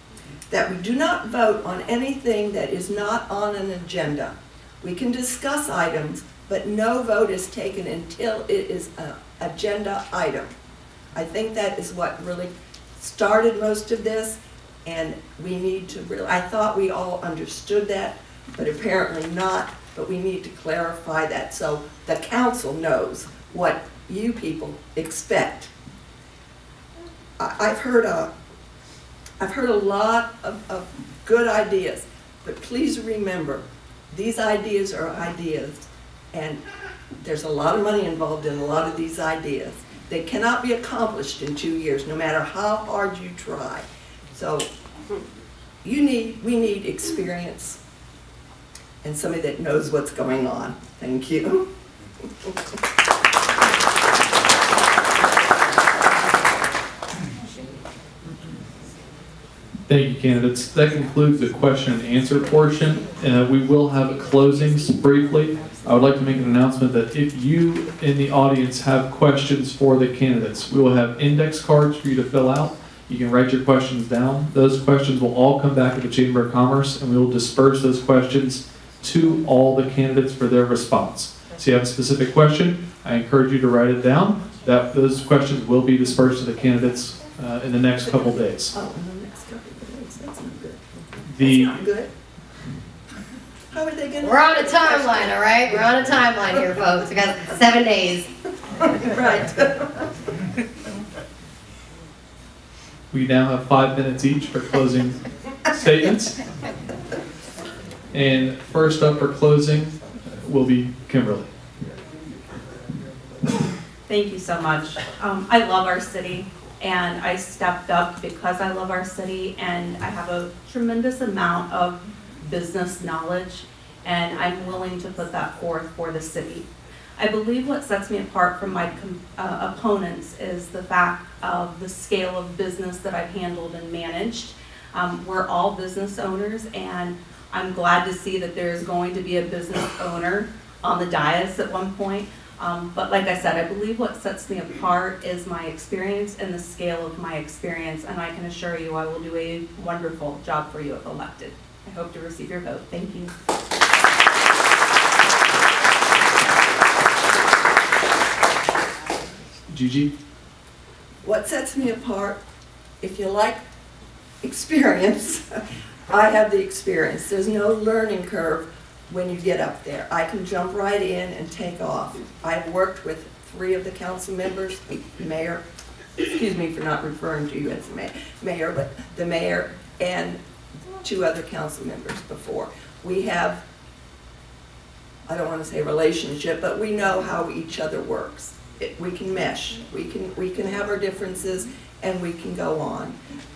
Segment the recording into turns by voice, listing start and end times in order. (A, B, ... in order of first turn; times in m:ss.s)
0:00.5-0:10.5 A
0:11.1-0:25.7 A
0:27.4-0:28.3 A
0:29.4-0:36.6 A
0:37.2-0:44.7 A
0:45.8-0:47.8 A
0:49.0-0:51.7 A
0:59.9-1:28.7 B
1:28.7-1:32.1 A
1:31.3-1:31.8 B
1:33.7-1:35.9 A
1:34.2-1:38.3 C
1:38.8-1:40.1 A
1:43.1-1:46.4 B
1:48.1-1:51.5 B
1:54.1-2:33.3 D
2:39.7-2:40.1 B
2:41.2-2:42.4 A
2:43.0-2:43.6 A
2:44.4-2:55.6 A
2:56.2-3:00.4 A
3:01.0-3:03.6 A
3:05.3-3:13.2 A